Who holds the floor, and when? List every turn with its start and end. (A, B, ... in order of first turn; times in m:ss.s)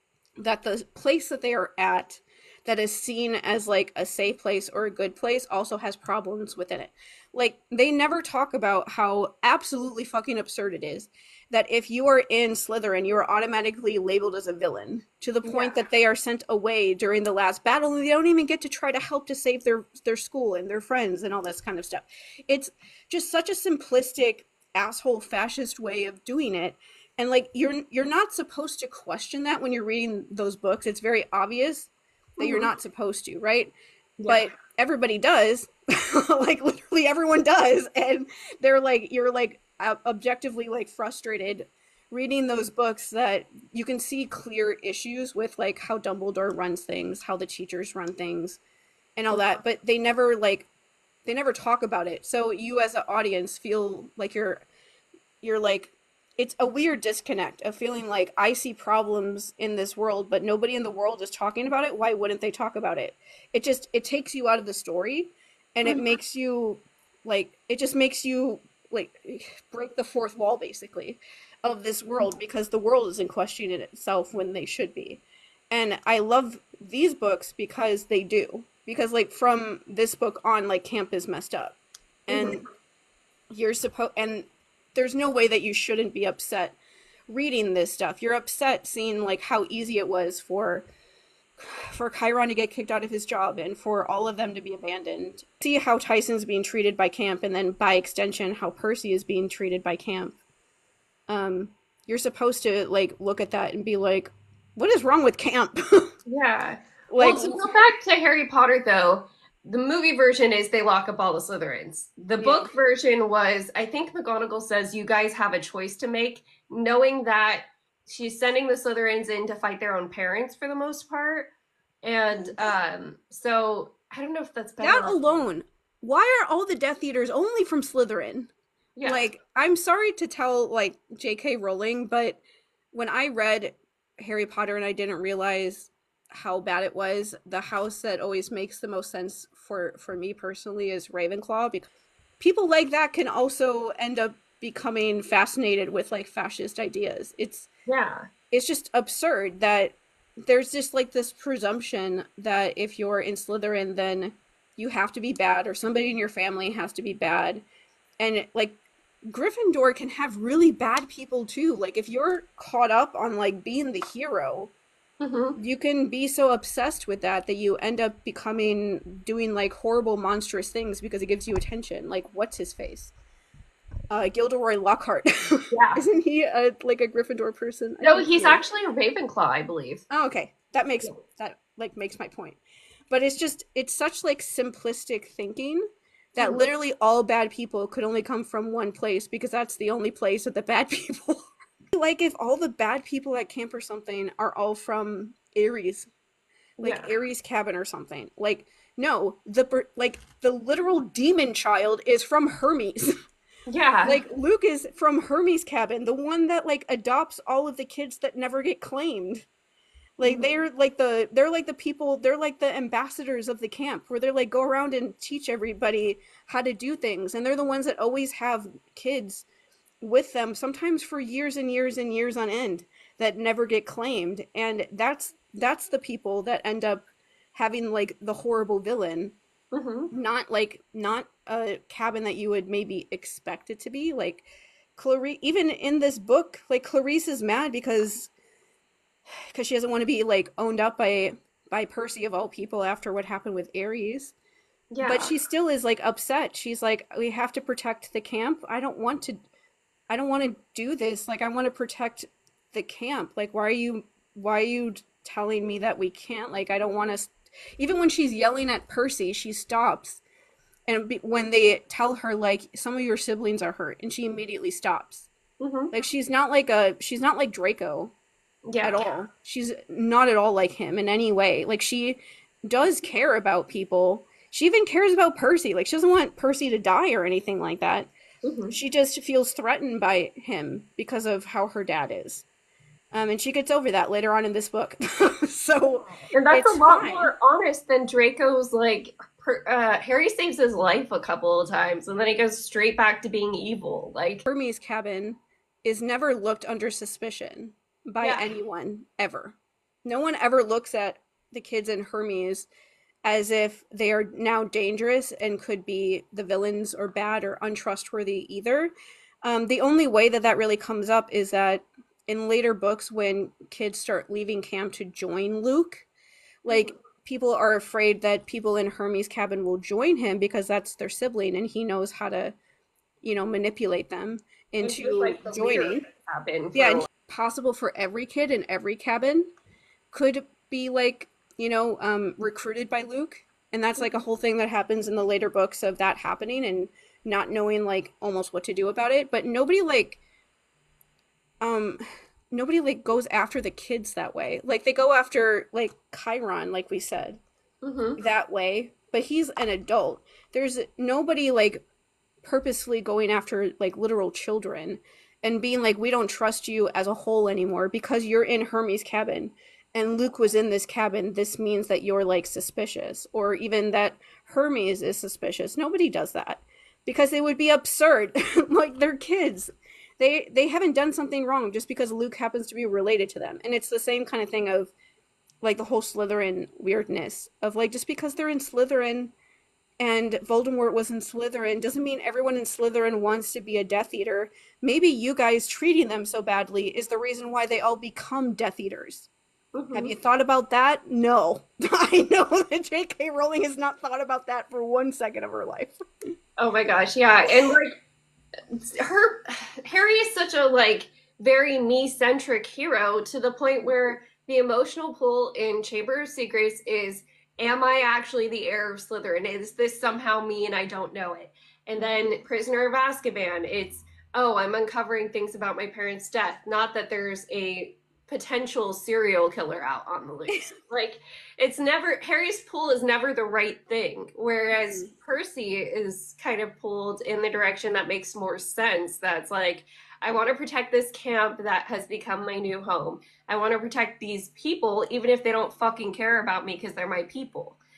0:00.4-0:33.7 A
0:15.4-0:15.8 B
0:32.4-0:32.7 B
0:34.2-0:34.4 B
0:34.2-0:48.6 A
0:49.2-0:50.7 A
0:49.3-0:49.6 B
0:51.2-0:54.6 A
0:55.4-1:22.6 A
1:22.3-1:22.6 B
1:23.5-1:26.8 A
1:27.3-1:30.9 A
1:31.9-1:40.4 A
1:41.3-1:46.1 A
1:46.2-2:01.5 B
1:47.1-1:47.6 A
1:52.4-1:52.7 A
2:02.0-2:05.4 B
2:02.3-2:02.7 A
2:04.8-2:08.5 A
2:09.0-2:09.3 B
2:09.0-2:12.4 A
2:12.9-2:21.9 A
2:22.4-2:27.7 A
2:27.9-2:28.2 B
2:28.5-2:37.6 A
2:38.2-2:44.7 A
2:45.2-2:45.6 B
2:45.6-2:53.1 A
2:54.1-2:58.6 A
2:55.7-2:56.0 B
2:58.0-3:00.0 B
3:00.1-3:16.1 A
3:06.4-3:06.6 B
3:16.8-3:23.1 A
3:16.8-3:17.1 B
3:23.7-3:24.2 B
3:24.0-3:29.5 A
3:30.2-3:39.4 A
3:30.2-3:30.5 B
3:40.0-3:49.3 A
3:49.7-3:50.1 B
3:50.1-3:54.4 A
3:55.0-3:58.3 A
3:59.5-4:04.3 A
4:04.9-4:05.3 B
4:05.0-4:09.4 A
4:10.1-4:20.2 A
4:20.9-4:25.3 A
4:25.6-4:25.9 B
4:25.9-4:28.1 A
4:28.6-4:29.0 B
4:28.8-4:38.1 A
4:38.4-4:38.7 B
4:38.7-4:42.4 A
4:43.1-4:47.3 A
4:46.3-4:54.4 B
4:54.4-5:02.7 A
4:58.2-4:58.5 B
5:03.2-5:16.1 A
5:16.6-5:22.6 A
5:16.7-5:16.9 B
5:23.2-5:26.0 A
5:24.8-5:27.1 B
5:26.7-5:29.5 A
5:30.1-5:40.2 A
5:41.6-5:42.0 A
5:42.5-5:47.4 A
5:47.8-5:48.2 B
5:48.2-5:51.8 A
5:52.4-6:14.9 A
6:15.6-6:19.3 A
6:20.0-6:29.3 A
6:29.7-6:30.1 B
6:29.9-6:35.9 A
6:36.6-6:38.0 B
6:38.7-7:17.8 B
7:04.7-7:05.1 A